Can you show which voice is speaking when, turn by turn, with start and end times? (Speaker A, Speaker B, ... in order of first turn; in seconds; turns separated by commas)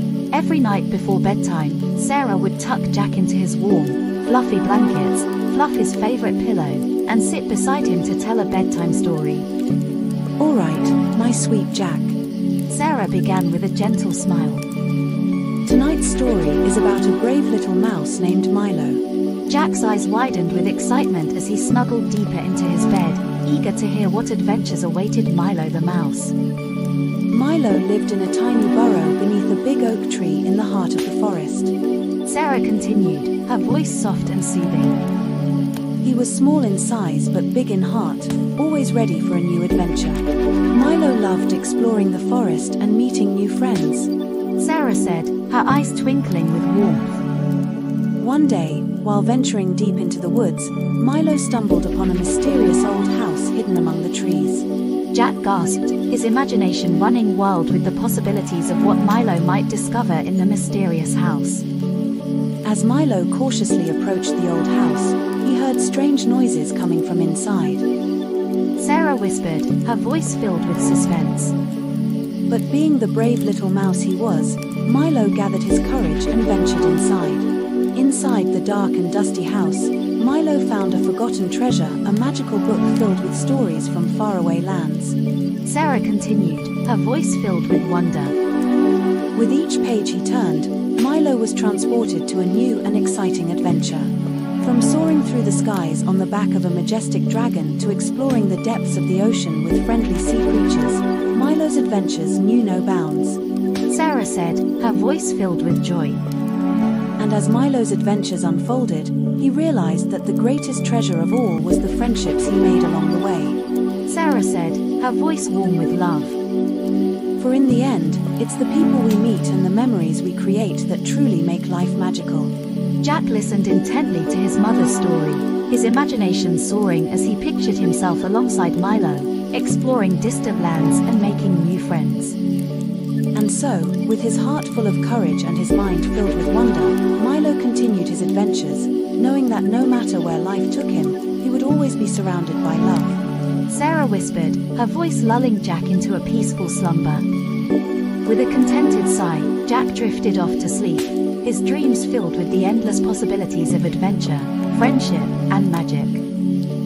Speaker A: 0.3-9.5, Speaker B: 10.4-12.2, Speaker A: 12.7-14.6, Speaker B: 15.6-19.0, Speaker A: 19.5-26.3, Speaker B: 27.3-31.7, Speaker A: 32.2-35.0, Speaker B: 36.0-44.1, Speaker A: 44.6-47.2, Speaker B: 48.2-54.6, Speaker A: 55.1-61.6, Speaker B: 62.6-67.8, Speaker A: 68.8-71.5, Speaker B: 72.5-85.2, Speaker A: 85.6-88.3, Speaker B: 89.3-103.4, Speaker A: 103.9-106.2, Speaker B: 107.2-113.6, Speaker A: 114.0-116.4, Speaker B: 117.4-122.5, Speaker A: 123.0-132.4, Speaker B: 133.3-143.2, Speaker A: 143.7-147.3, Speaker A: 148.2-156.2